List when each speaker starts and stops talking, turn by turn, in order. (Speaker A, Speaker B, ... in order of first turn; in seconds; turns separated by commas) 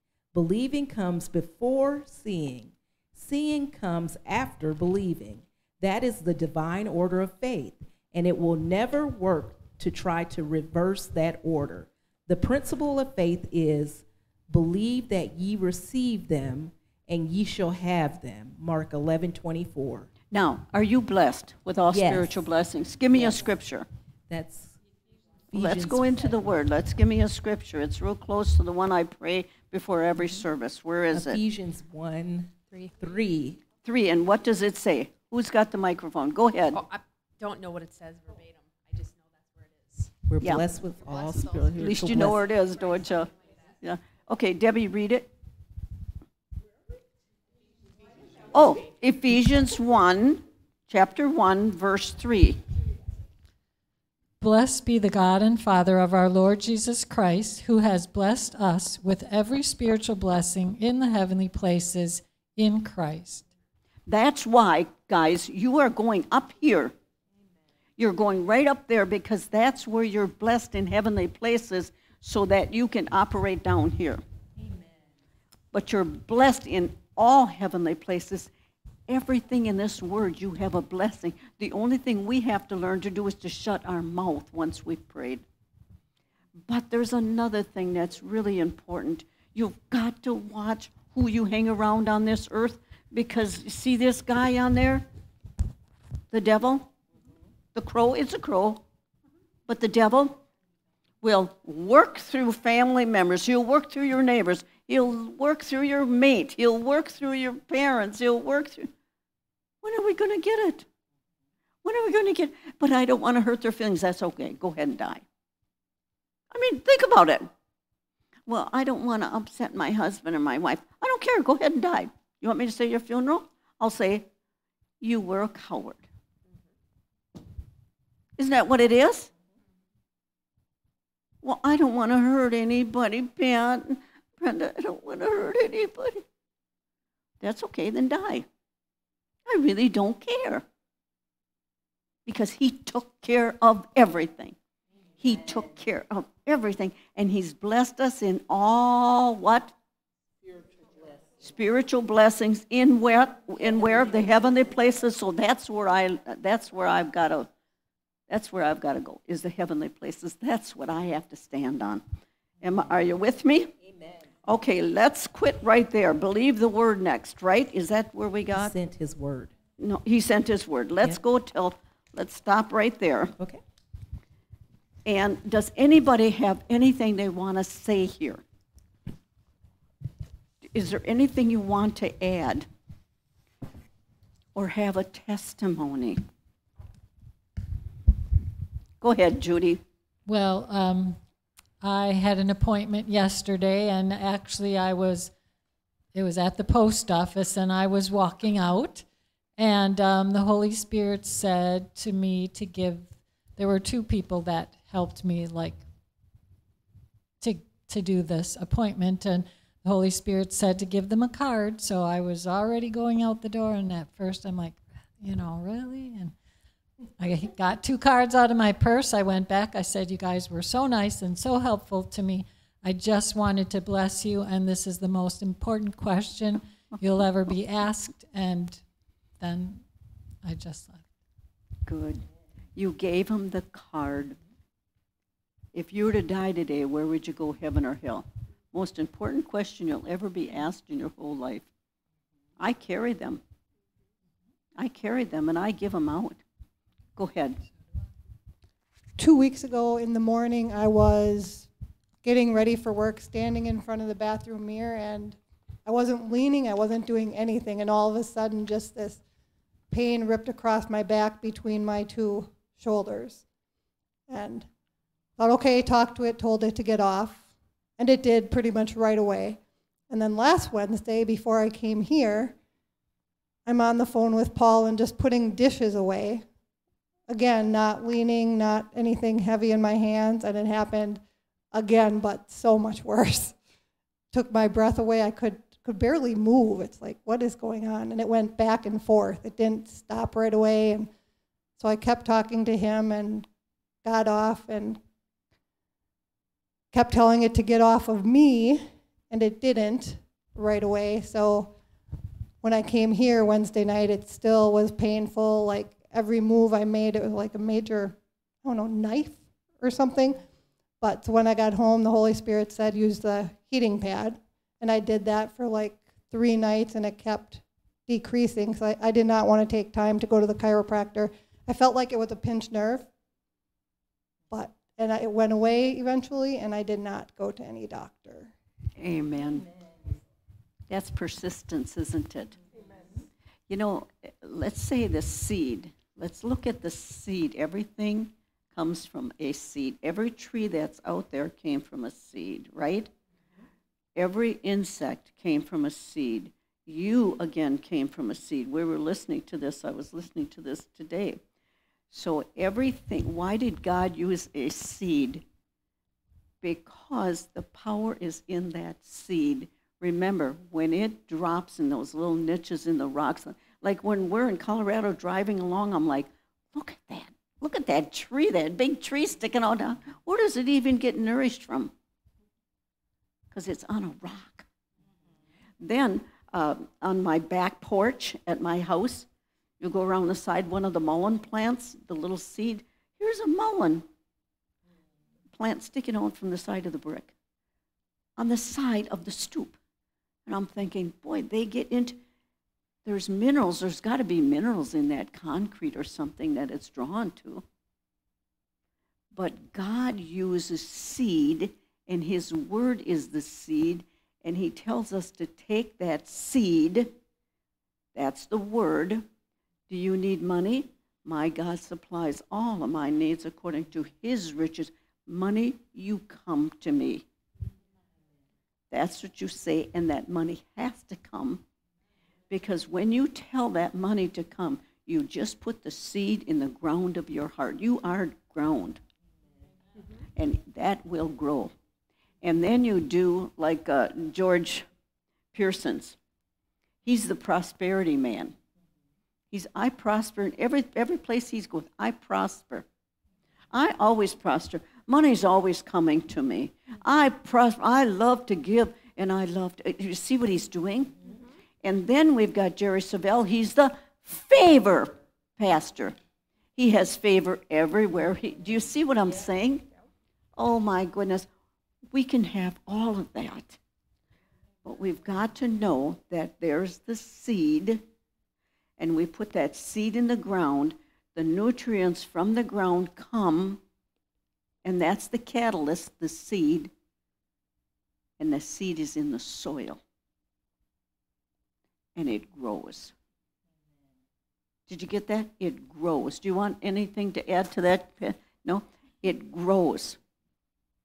Speaker A: 0.3-20.1, Speaker B: 20.3-23.9, Speaker A: 21.9-22.4, Speaker A: 23.1-23.4, Speaker A: 24.3-24.8, Speaker A: 25.5-26.3, Speaker B: 25.5-31.4, Speaker A: 31.1-33.6, Speaker B: 33.8-36.8, Speaker C: 36.7-40.1, Speaker A: 40.3-42.5, Speaker C: 41.2-41.6, Speaker B: 41.8-45.3, Speaker B: 48.5-52.6, Speaker D: 54.4-63.5, Speaker B: 64.1-66.9, Speaker B: 68.0-74.2, Speaker B: 75.7-78.5, Speaker B: 79.1-85.4, Speaker B: 86.6-95.1, Speaker B: 96.3-96.9, Speaker B: 97.8-98.8, Speaker B: 99.7-100.4, Speaker B: 101.2-108.9, Speaker B: 109.8-110.9, Speaker B: 111.8-115.2, Speaker B: 116.5-117.5, Speaker B: 118.5-124.3, Speaker B: 125.0-126.1, Speaker B: 128.4-129.3, Speaker B: 131.4-136.2, Speaker B: 137.4-138.5, Speaker B: 139.5-140.7, Speaker B: 142.3-144.6, Speaker B: 145.2-149.8, Speaker A: 150.4-151.2, Speaker B: 151.4-157.5, Speaker B: 158.3-162.0, Speaker B: 162.6-163.7, Speaker B: 164.4-168.7, Speaker A: 168.6-169.5, Speaker B: 169.8-173.3, Speaker B: 175.1-178.4, Speaker B: 180.7-182.7, Speaker B: 184.6-186.2, Speaker B: 189.0-189.8, Speaker D: 190.3-191.2, Speaker D: 191.8-195.3, Speaker D: 196.1-199.1, Speaker D: 199.6-205.8, Speaker D: 207.4-216.3, Speaker D: 217.2-228.8, Speaker D: 229.4-229.9, Speaker D: 230.4-231.1, Speaker B: 231.9-232.2, Speaker B: 232.8-234.4, Speaker B: 235.7-241.7, Speaker B: 242.6-243.4, Speaker B: 244.8-246.4, Speaker B: 247.2-247.6, Speaker E: 249.2-251.7, Speaker E: 252.2-259.2, Speaker E: 259.9-263.4, Speaker E: 264.3-264.7, Speaker E: 265.4-267.5, Speaker E: 268.0-272.6, Speaker E: 273.7-276.5, Speaker E: 277.3-281.2, Speaker E: 281.7-283.6, Speaker E: 284.3-291.1, Speaker E: 291.8-293.5, Speaker E: 294.1-295.0, Speaker E: 296.9-301.8, Speaker E: 302.6-310.4, Speaker E: 311.0-323.1, Speaker E: 324.5-328.5, Speaker B: 329.0-329.7, Speaker B: 330.9-332.6, Speaker B: 333.7-343.1, Speaker B: 344.2-351.4, Speaker B: 352.1-355.4, Speaker B: 356.6-371.9, Speaker B: 373.5-374.7, Speaker B: 375.8-379.3, Speaker B: 379.8-384.1, Speaker B: 385.5-387.4, Speaker B: 388.4-389.8, Speaker B: 390.5-392.2, Speaker B: 393.1-397.6, Speaker B: 399.3-407.1, Speaker B: 408.1-409.3, Speaker B: 409.9-417.2, Speaker B: 418.9-421.6, Speaker B: 422.5-429.0, Speaker B: 430.4-431.7, Speaker B: 432.4-434.9, Speaker B: 435.5-436.2, Speaker B: 437.1-438.6, Speaker B: 439.5-442.9, Speaker B: 443.7-451.2, Speaker B: 451.8-456.2, Speaker B: 456.8-459.9, Speaker B: 460.6-461.5, Speaker B: 462.1-463.8, Speaker B: 464.9-468.0, Speaker B: 469.0-473.8, Speaker B: 474.8-476.9, Speaker B: 478.4-480.0, Speaker B: 482.2-483.1, Speaker B: 484.9-490.2